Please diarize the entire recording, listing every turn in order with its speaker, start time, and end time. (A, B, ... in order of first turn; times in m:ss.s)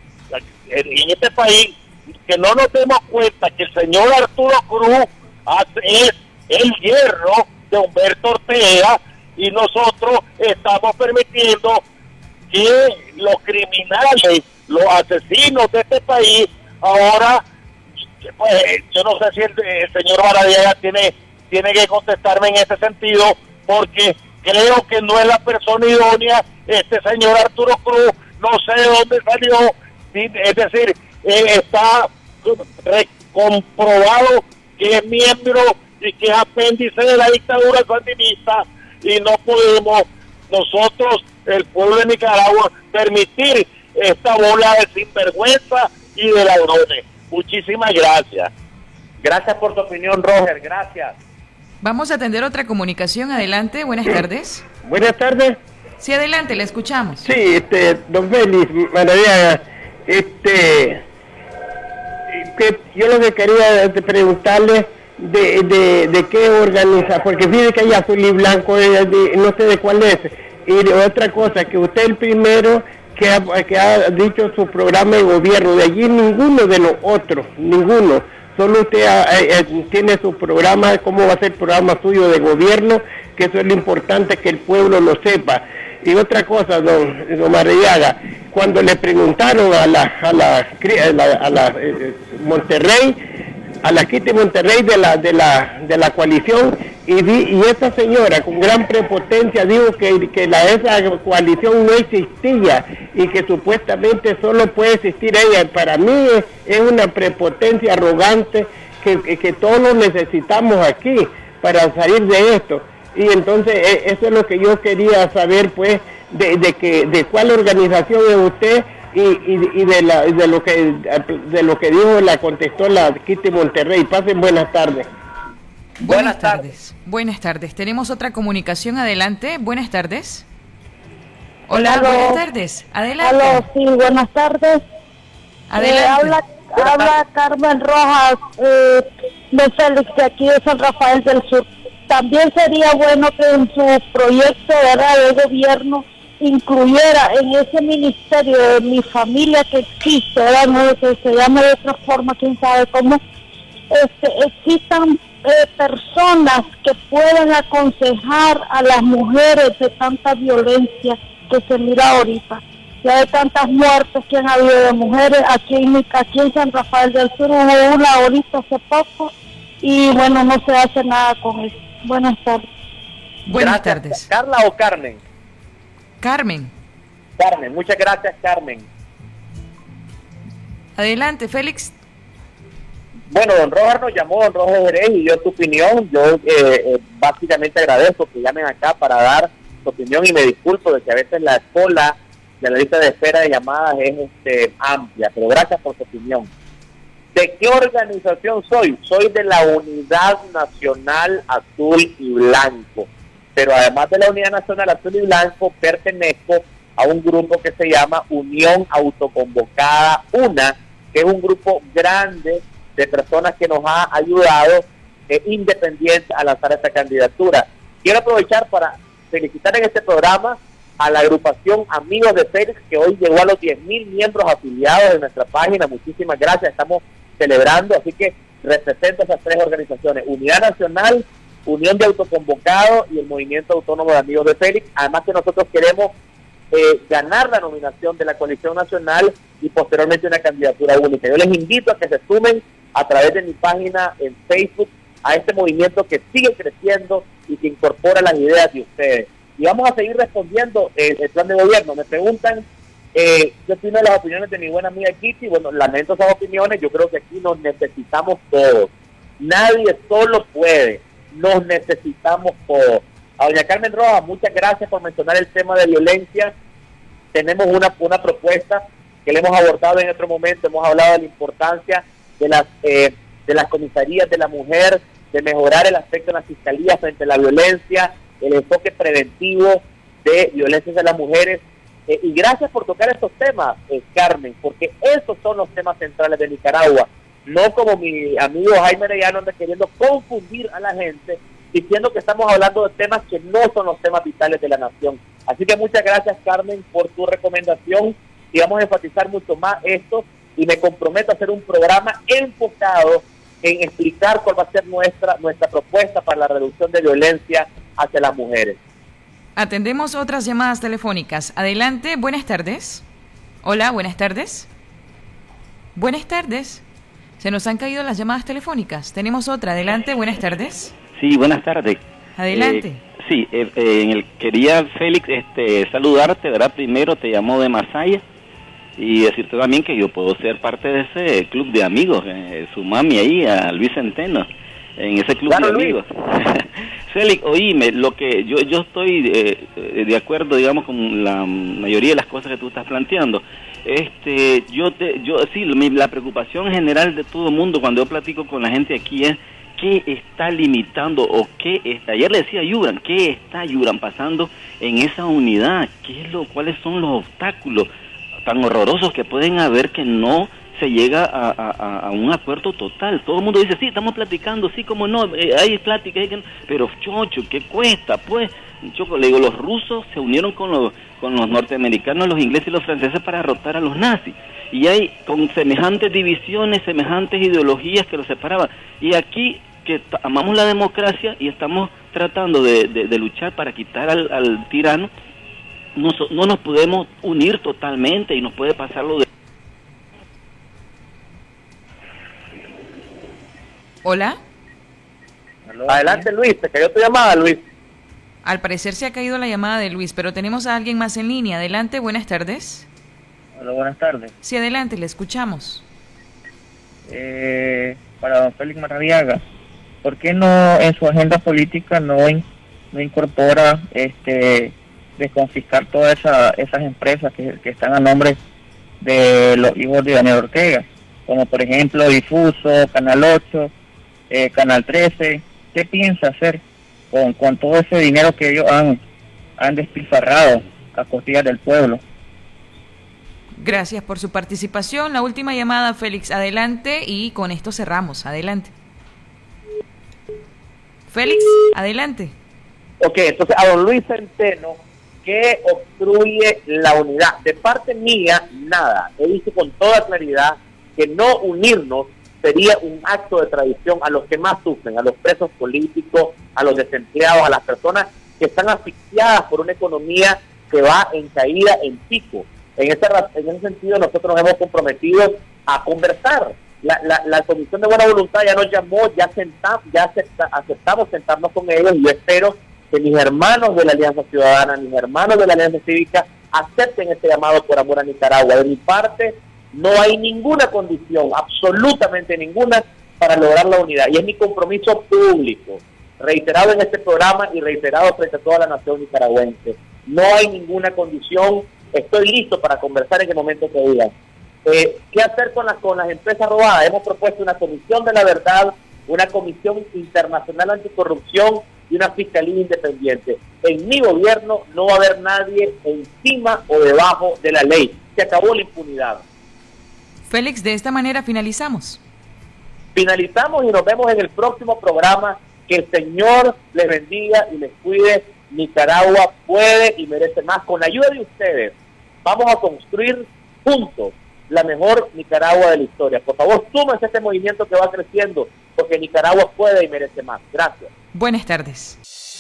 0:00.3-0:11.8 A
0:12.5-0:17.4 A
0:18.4-0:48.5 A
0:49.2-0:51.2 B
0:51.8-0:54.6 C
0:54.8-0:55.6 D
0:56.0-0:57.2 C
0:57.2-1:01.0 D
1:02.3-1:33.2 D
1:33.8-2:05.1 D
2:06.0-2:06.7 B
2:06.0-2:10.4 C
2:11.7-2:13.6 C
2:11.7-2:12.4 E
2:13.2-2:14.8 E
2:15.7-2:17.1 C
2:15.8-2:33.2 E
2:33.9-2:52.6 E
2:53.4-2:54.2 C
2:53.6-2:55.2 B
2:56.2-2:56.7 C
2:57.4-2:58.9 B
3:01.0-3:01.9 C
3:03.3-3:16.5 B
3:17.3-3:56.1 B
3:56.7-4:18.9 B
4:19.4-4:26.5 B
4:27.3-5:08.8 B
5:09.6-5:13.0 C
5:13.6-5:14.7 C
5:16.0-5:16.8 C
5:17.4-5:20.9 C
5:21.2-5:28.2 F
5:22.4-5:23.0 C
5:29.0-5:57.9 F
5:35.5-5:36.0 B
5:58.4-6:25.1 F
6:26.0-6:29.2 F
6:34.0-6:34.4 C
6:35.6-6:36.3 G
6:35.9-6:37.6 B
6:38.4-6:42.9 C
6:43.6-6:44.3 G
6:44.4-6:45.8 C
6:47.1-6:49.4 G
6:50.0-6:58.4 G
6:59.0-7:03.7 G
7:04.3-7:09.0 G
7:09.6-7:12.0 G
7:13.6-7:18.7 C
7:21.1-7:22.3 C
7:23.0-8:14.1 B
8:14.6-8:29.2 B
8:30.3-8:32.0 C
8:32.9-8:50.9 B
8:51.1-8:52.0 C